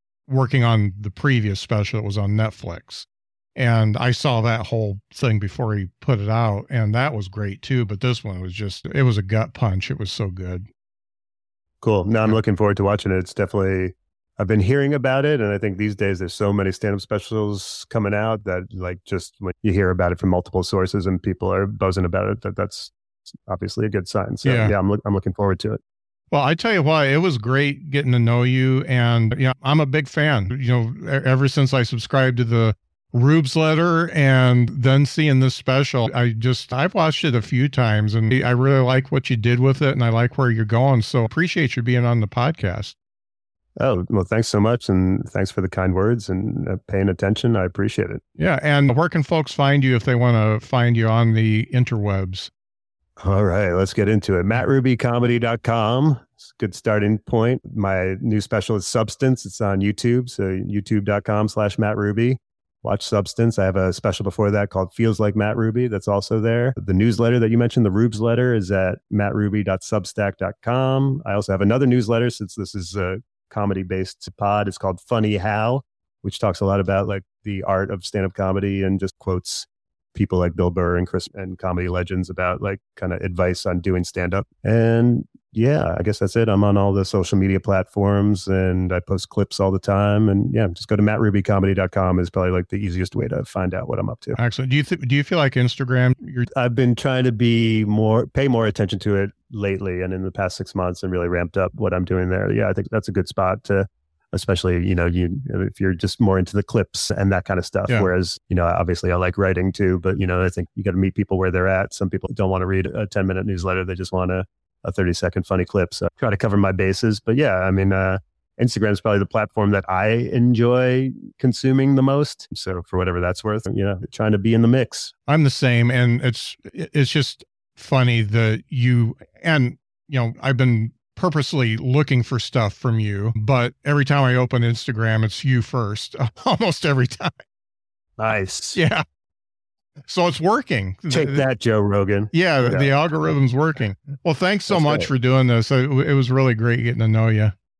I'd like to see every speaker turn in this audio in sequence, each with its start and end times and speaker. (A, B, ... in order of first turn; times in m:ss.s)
0:00.3-0:10.6 A
0:11.8-0:22.9 B
0:23.4-0:25.8 B
0:24.4-0:24.7 A
0:26.3-0:42.9 A
0:43.8-0:48.2 B
0:48.4-0:52.5 A
0:53.2-1:34.4 B
1:34.4-1:36.5 A
1:36.5-2:05.1 B
2:05.3-2:17.4 A
2:18.2-2:18.8 B
2:18.7-2:19.0 A
2:20.0-2:21.4 A
2:21.1-2:22.9 B
2:22.3-2:27.5 A
2:24.7-2:25.1 B